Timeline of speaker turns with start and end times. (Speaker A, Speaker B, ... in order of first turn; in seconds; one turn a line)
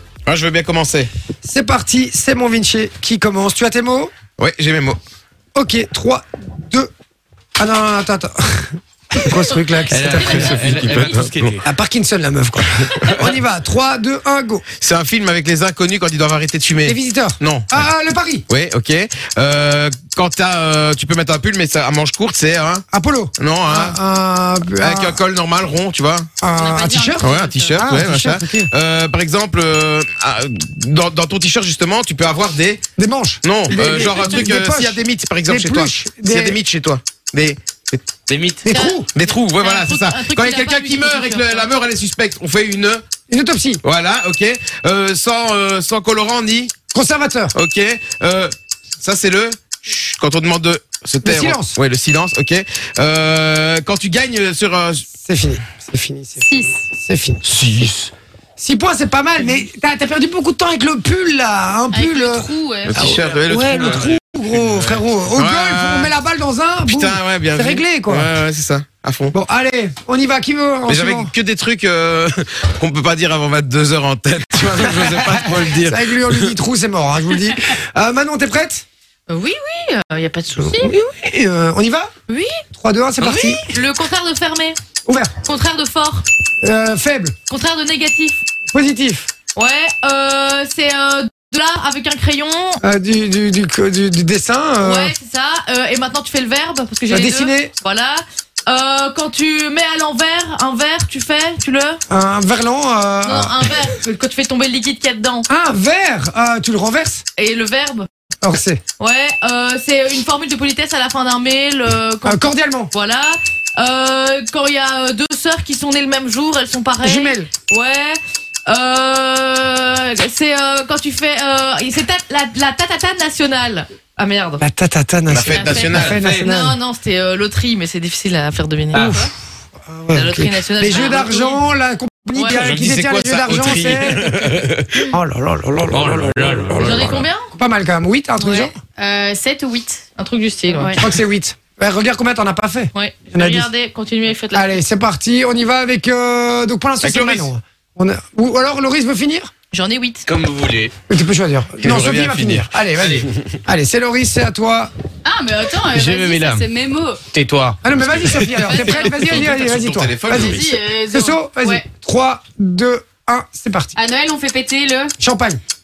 Speaker A: 0.3-1.1
Speaker B: 1.4-4.1
Speaker A: 4.4-5.0
Speaker B: 5.5-6.9
Speaker B: 7.6-14.6
Speaker C: 9.9-11.7
Speaker A: 10.2-11.6
Speaker A: 12.9-13.2
Speaker A: 14.8-17.9
Speaker B: 16.9-18.4
Speaker A: 18.5-22.9
Speaker B: 22.9-25.2
Speaker A: 23.4-24.0
Speaker A: 24.8-26.3
Speaker B: 26.4-28.7
Speaker D: 26.6-27.8
Speaker A: 27.2-32.8
Speaker B: 33.0-36.6
Speaker A: 33.4-38.3
Speaker C: 38.3-38.6
Speaker B: 38.6-39.1
Speaker E: 38.7-41.7
Speaker A: 39.1-43.0
Speaker B: 43.3-43.8
Speaker A: 43.8-46.7
Speaker B: 46.9-47.5
Speaker A: 47.5-55.0
Speaker B: 51.2-51.8
Speaker B: 55.1-57.4
Speaker D: 56.4-56.8
Speaker A: 57.5-58.1
Speaker B: 58.6-68.3
Speaker D: 61.9-63.4
Speaker A: 62.9-66.2
Speaker A: 66.8-69.4
Speaker B: 69.3-71.3
Speaker A: 70.9-76.5
Speaker B: 75.0-78.8
Speaker E: 79.3-80.9
Speaker B: 80.6-82.1
Speaker E: 82.3-82.6
Speaker B: 82.7-83.6
Speaker C: 83.2-83.8
Speaker E: 83.7-84.8
Speaker B: 85.1-85.3
Speaker E: 85.5-86.3
Speaker B: 86.6-87.3
Speaker E: 87.5-88.4
Speaker B: 88.7-89.3
Speaker E: 89.6-92.8
Speaker B: 92.8-95.1
Speaker E: 94.8-102.0
Speaker B: 97.1-97.7
Speaker B: 102.1-103.6
Speaker E: 103.2-105.5
Speaker B: 105.5-107.2
Speaker E: 107.4-108.1
Speaker B: 108.4-108.8
Speaker E: 109.0-124.6
Speaker B: 112.2-112.9
Speaker B: 117.0-117.5
Speaker B: 124.6-126.8
Speaker A: 125.3-126.5
Speaker E: 125.5-129.2
Speaker B: 128.9-129.3
Speaker B: 129.9-134.5
Speaker E: 130.1-131.6
Speaker E: 132.3-132.6
Speaker A: 132.5-135.0
Speaker B: 135.1-138.8
Speaker C: 135.9-137.3
Speaker E: 136.8-137.5
Speaker D: 138.4-140.0
Speaker E: 140.2-141.0
Speaker D: 140.8-141.1
Speaker B: 141.0-143.7
Speaker E: 142.9-144.8
Speaker B: 144.5-149.5
Speaker A: 147.0-147.5
Speaker E: 149.7-150.2
Speaker C: 150.3-150.9
Speaker B: 151.1-154.9
Speaker A: 151.8-153.3
Speaker D: 155.2-157.2
Speaker C: 155.9-156.7
Speaker C: 157.3-159.3
Speaker B: 157.8-163.9
Speaker A: 158.1-158.4
Speaker D: 158.6-159.5
Speaker A: 159.3-160.6
Speaker D: 160.4-161.8
Speaker D: 163.9-165.1
Speaker B: 165.2-165.6